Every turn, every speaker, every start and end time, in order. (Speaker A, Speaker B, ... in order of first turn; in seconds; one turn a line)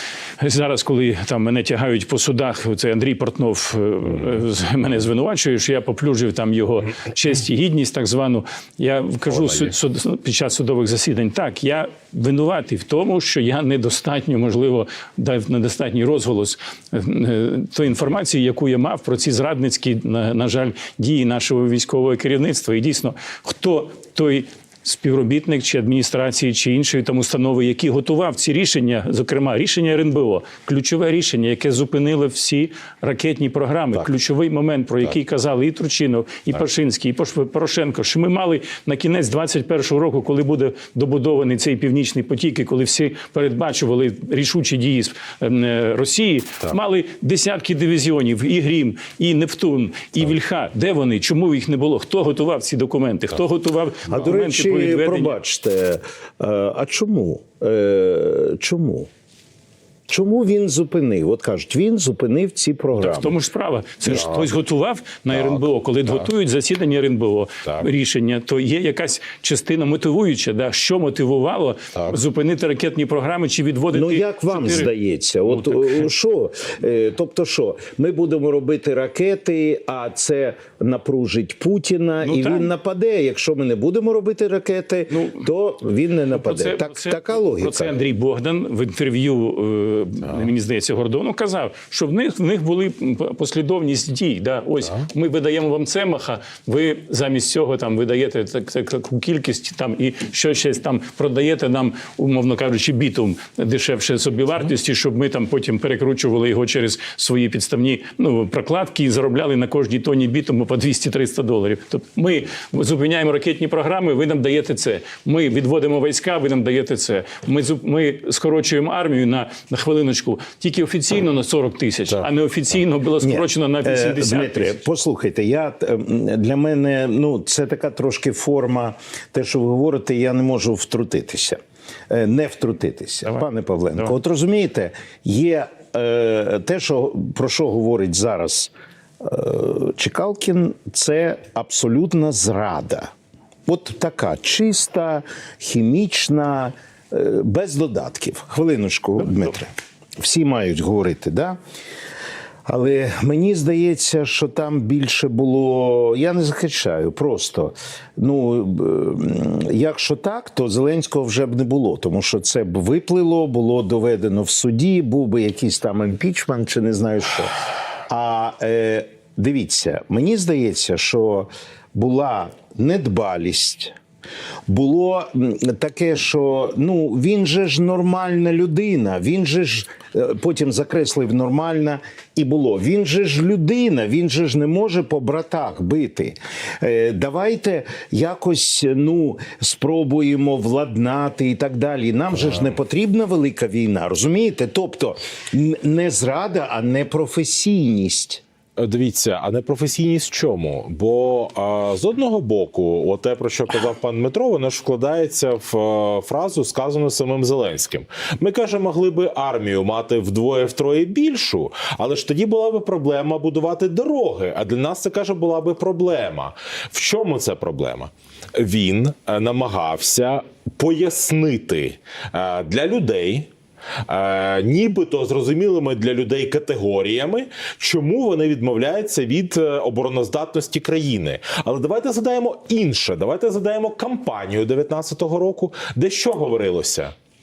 Speaker A: 0.4-55.4
Speaker B: 9.3-9.7
Speaker C: 54.1-59.1
Speaker C: 60.1-63.4
Speaker A: 62.9-74.9
Speaker B: 64.1-64.5
Speaker B: 65.3-65.6
Speaker C: 73.9-88.0
Speaker A: 75.5-76.1
Speaker A: 82.2-82.7
Speaker A: 85.1-85.5
Speaker A: 86.3-124.8
Speaker C: 123.2-143.1
Speaker C: 143.7-151.6
Speaker C: 152.7-167.6
Speaker C: 168.1-173.9
Speaker C: 174.7-198.4
Speaker B: 198.8-223.5
Speaker B: 224.1-237.1